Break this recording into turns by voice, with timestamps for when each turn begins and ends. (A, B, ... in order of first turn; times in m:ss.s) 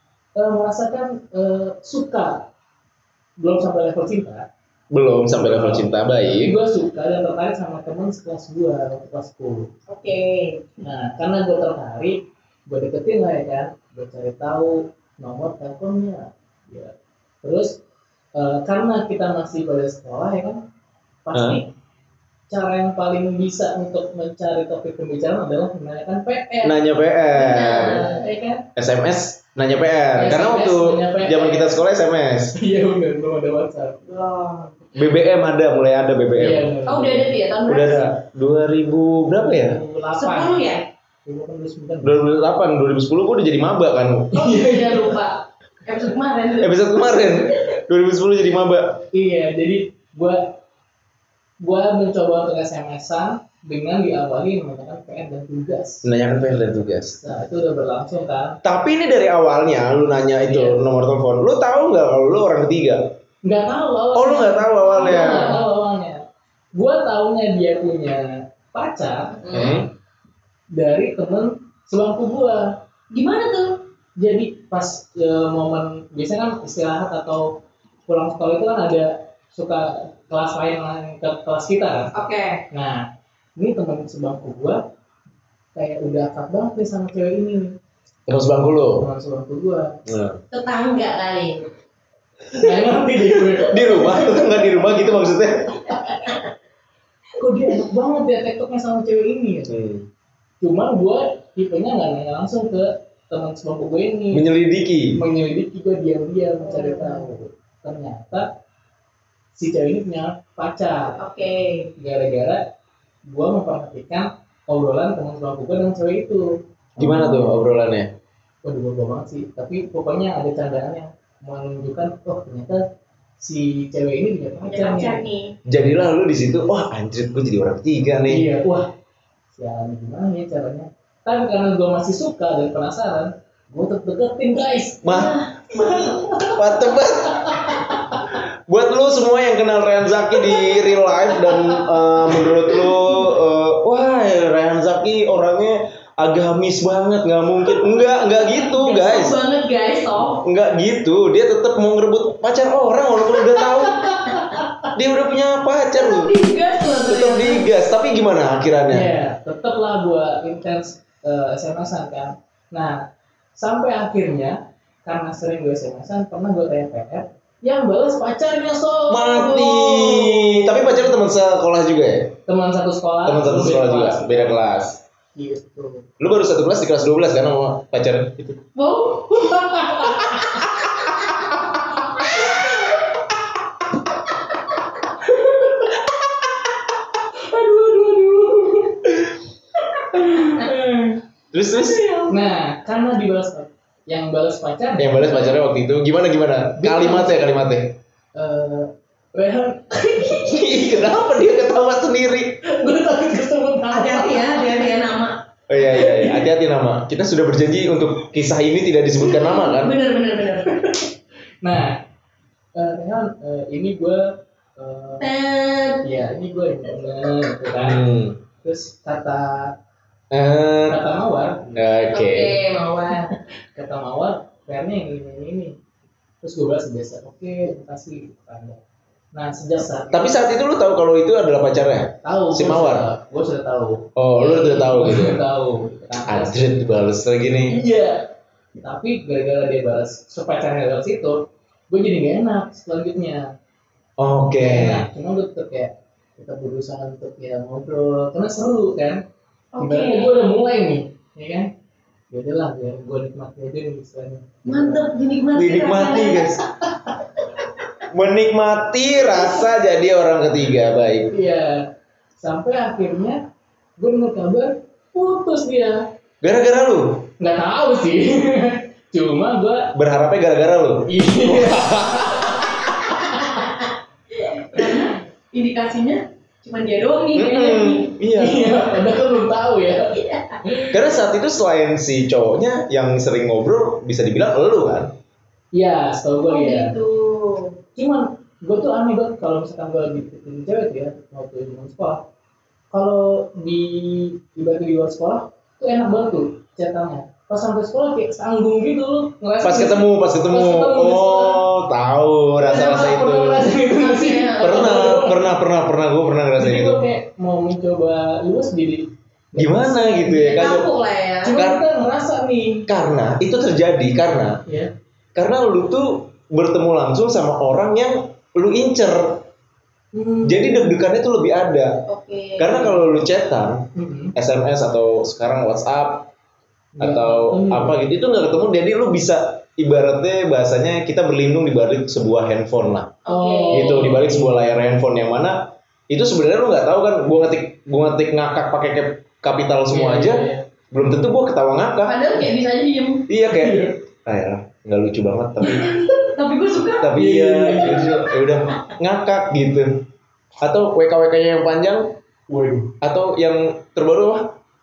0:00.4-0:02.4 A
0:03.4-0:04.4 A
0:04.9-0:06.5 B
0:05.4-0:09.7 A
0:09.9-0:10.6 C
0:10.8-0:17.8 A
0:18.4-0:20.6 A
0:21.2-0:21.7 A
0:21.3-0:21.6 B
0:22.5-0:26.8 A
0:26.6-0:28.0 B
0:27.3-0:28.2 C
0:27.7-0:28.6 A
0:28.8-0:32.5 B
0:30.2-0:31.8 A
0:32.6-0:34.0 A
0:34.0-0:34.8 C
0:34.9-0:36.7 B
0:36.4-0:37.3 A
0:36.8-0:38.0 C
0:37.7-0:39.8 B
0:39.4-0:40.6 A
0:40.1-0:40.8 C
0:41.2-0:42.2 A
0:42.0-0:44.4 B
0:44.3-0:45.1 A
0:44.3-0:46.8 C
0:46.6-0:49.0 B
0:49.1-0:50.5 A
0:51.6-0:56.1 A
0:56.0-0:57.2 B
0:57.1-0:58.6 A
0:58.6-1:03.1 B
1:00.4-1:00.9 A
1:03.4-1:06.2 A
1:04.1-1:05.6 B
1:04.8-1:05.6 C
1:06.7-1:09.4 A
1:09.4-1:09.8 C
1:09.5-1:09.9 B
1:10.7-1:12.8 A
1:13.1-1:13.8 C
1:14.2-1:22.1 A
1:22.1-1:22.6 C
1:22.7-1:23.0 A
1:23.6-1:24.8 A
1:25.7-1:27.8 A
1:28.3-1:29.0 B
1:29.0-1:30.0 A
1:30.0-1:30.4 B
1:30.5-1:31.7 C
1:32.5-1:36.0 B
1:32.6-1:34.7 A
1:35.9-1:36.2 A
1:37.4-1:39.7 A
1:39.7-1:40.0 B
1:40.6-1:44.4 A
1:44.3-1:45.2 B
1:45.1-1:48.5 A
1:46.6-1:47.3 C
1:49.5-1:51.2 A
1:51.2-1:51.9 C
1:52.0-1:52.6 A
1:53.3-1:57.4 A
1:57.0-1:58.1 B
1:58.6-2:02.8 A
2:03.4-2:05.2 A
2:04.6-2:05.5 C
2:05.7-2:08.5 B
2:08.3-2:08.9 A
2:09.5-2:15.1 A
2:15.0-2:15.4 B
2:15.0-2:16.2 C
2:15.7-2:18.4 A
2:16.5-2:29.4 B
2:20.3-2:20.6 A
2:21.3-2:21.8 A
2:22.4-2:22.9 A
2:28.3-2:30.4 C
2:30.3-2:34.2 B
2:33.5-2:34.9 A
2:34.9-2:36.3 B
2:36.0-2:37.7 C
2:37.0-2:39.1 B
2:38.9-2:43.0 A
2:43.6-2:49.4 A
2:49.1-2:52.4 B
2:49.2-2:50.8 C
2:52.5-2:54.6 A
2:53.2-2:55.0 B
2:55.3-2:56.0 A
2:56.2-2:58.6 B
2:58.7-3:00.4 C
2:59.4-3:00.7 A
3:02.5-3:02.9 A
3:05.2-3:05.9 A
3:07.3-3:09.3 A
3:10.0-3:11.2 A
3:10.4-3:10.7 C
3:11.5-3:12.0 B
3:11.8-3:12.4 C
3:12.3-3:15.5 A
3:15.0-3:18.0 B
3:16.8-3:17.4 A
3:18.4-3:20.6 A
3:20.2-3:22.6 B
3:22.6-3:24.8 A
3:23.9-3:25.3 C
3:25.7-3:30.0 B
3:25.9-3:26.4 A
3:29.2-3:30.7 C
3:30.6-3:31.1 A
3:31.6-3:32.0 A
3:32.8-3:35.3 A
3:35.2-3:36.1 C
3:36.0-3:38.1 A
3:37.8-3:38.4 B
3:38.6-3:39.7 A
3:40.3-3:41.0 B
3:40.9-3:41.8 A
3:41.8-3:42.6 B
3:42.1-3:43.3 C
3:43.2-3:45.8 A
3:46.4-3:48.8 A
3:49.3-3:50.3 A
3:50.1-3:53.1 B
3:52.2-3:56.7 A
3:54.2-3:55.4 B
3:56.3-3:57.8 B
3:57.7-4:03.5 A
4:04.2-4:05.0 B
4:04.6-4:09.2 A
4:09.7-4:10.3 C
4:09.8-4:11.7 A
4:12.3-4:15.0 A
4:14.6-4:16.5 C
4:15.5-4:16.6 B
4:16.8-4:17.4 A
4:18.1-4:21.3 B
4:21.3-4:23.4 A
4:24.0-4:26.0 A
4:26.4-4:27.3 B
4:27.4-4:29.9 A
4:29.9-4:32.7 B
4:31.1-4:33.9 A
4:34.4-4:38.1 C
4:34.7-4:35.0 A
4:37.3-4:38.8 B
4:38.3-4:40.9 A
4:40.1-4:40.6 C
4:40.9-4:45.1 B
4:45.7-4:46.9 A
4:46.5-4:47.8 C
4:48.0-4:52.2 A
4:52.9-5:01.6 A
4:59.6-5:03.7 B
5:02.6-5:05.4 A
5:02.8-5:03.1 C
5:03.8-5:05.2 C
5:04.6-5:07.0 B
5:06.6-5:10.4 A
5:09.6-5:10.9 B
5:10.3-5:11.6 C
5:11.4-5:12.8 A
5:11.6-5:11.8 B
5:12.9-5:14.6 B
5:14.6-5:14.9 A
5:15.3-5:19.4 B
5:20.1-5:20.9 A
5:20.4-5:22.0 B
5:22.1-5:22.9 C
5:22.6-5:26.3 B
5:23.9-5:24.3 A
5:27.0-5:28.0 A
5:27.0-5:33.2 B
5:33.2-5:34.0 C
5:33.3-5:34.6 A
5:33.7-5:42.2 B
5:39.9-5:40.6 A
5:42.0-5:43.3 C
5:43.3-5:45.9 B
5:43.6-5:44.0 A
5:45.6-5:46.3 A
5:46.2-5:47.1 C
5:47.0-5:50.0 B
5:47.2-5:48.3 A
5:50.6-5:52.1 B
5:52.5-5:52.9 A
5:53.0-5:54.5 B